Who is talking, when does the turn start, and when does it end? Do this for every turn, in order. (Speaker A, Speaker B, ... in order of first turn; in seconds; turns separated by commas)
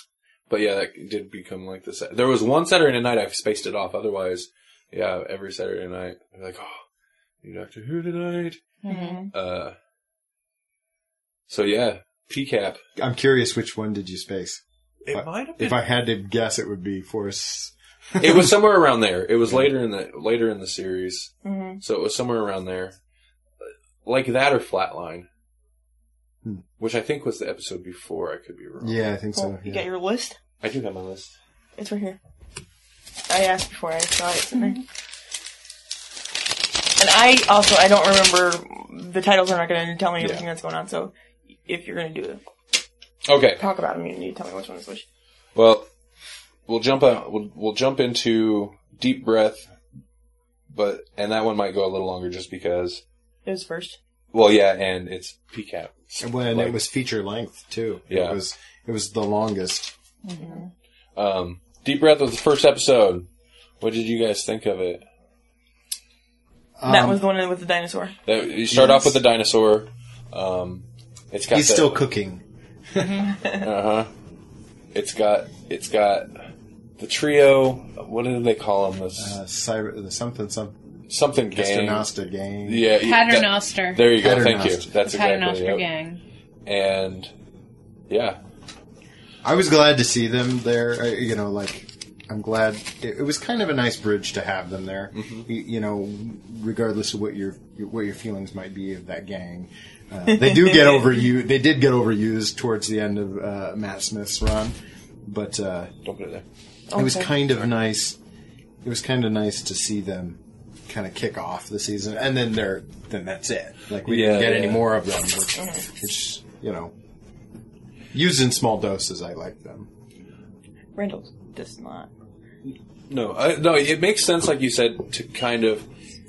Speaker A: 0.5-6.9, Speaker A: 7.4-8.7, Speaker B: 8.8-9.3, Speaker C: 8.9-9.3, Speaker A: 9.3-9.8, Speaker A: 11.5-12.8, Speaker D: 13.0-18.5, Speaker A: 15.1-15.8, Speaker A: 18.2-23.0, Speaker D: 19.4-19.7, Speaker C: 21.4-21.8, Speaker A: 23.6-25.3, Speaker A: 26.8-29.0, Speaker D: 28.8-29.9, Speaker C: 29.4-30.4, Speaker A: 30.6-31.3, Speaker C: 31.8-32.2, Speaker C: 33.3-34.8, Speaker C: 37.0-41.1, Speaker A: 40.2-40.5, Speaker C: 41.6-42.4, Speaker A: 43.3-43.6, Speaker C: 43.6-45.0, Speaker A: 45.5-45.9, Speaker A: 46.7-49.7, Speaker A: 50.7-53.0, Speaker C: 53.5-54.0, Speaker A: 54.3-56.8, Speaker D: 56.2-59.9, Speaker A: 58.1-58.4, Speaker B: 60.2-60.6, Speaker C: 60.4-60.7, Speaker A: 61.2-63.3, Speaker A: 63.8-65.1, Speaker D: 66.8-67.2, Speaker C: 66.8-68.2, Speaker A: 68.3-72.1, Speaker D: 68.7-69.1, Speaker D: 71.5-73.3, Speaker B: 73.0-73.3, Speaker A: 73.5-74.1, Speaker A: 74.9-76.3, Speaker A: 77.0-79.4, Speaker D: 79.2-80.8, Speaker A: 81.1-82.1, Speaker D: 81.5-82.9, Speaker A: 82.6-85.9, Speaker B: 83.0-84.2, Speaker D: 84.2-84.9, Speaker B: 85.0-86.2, Speaker A: 86.7-87.3, Speaker A: 88.1-88.4, Speaker D: 89.4-105.9, Speaker A: 95.1-95.5, Speaker A: 106.0-106.5, Speaker C: 106.9-107.3, Speaker D: 106.9-108.2, Speaker D: 108.8-116.9, Speaker A: 114.0-114.9, Speaker C: 115.6-115.8, Speaker D: 118.1-119.9, Speaker C: 121.0-122.1, Speaker A: 123.1-125.9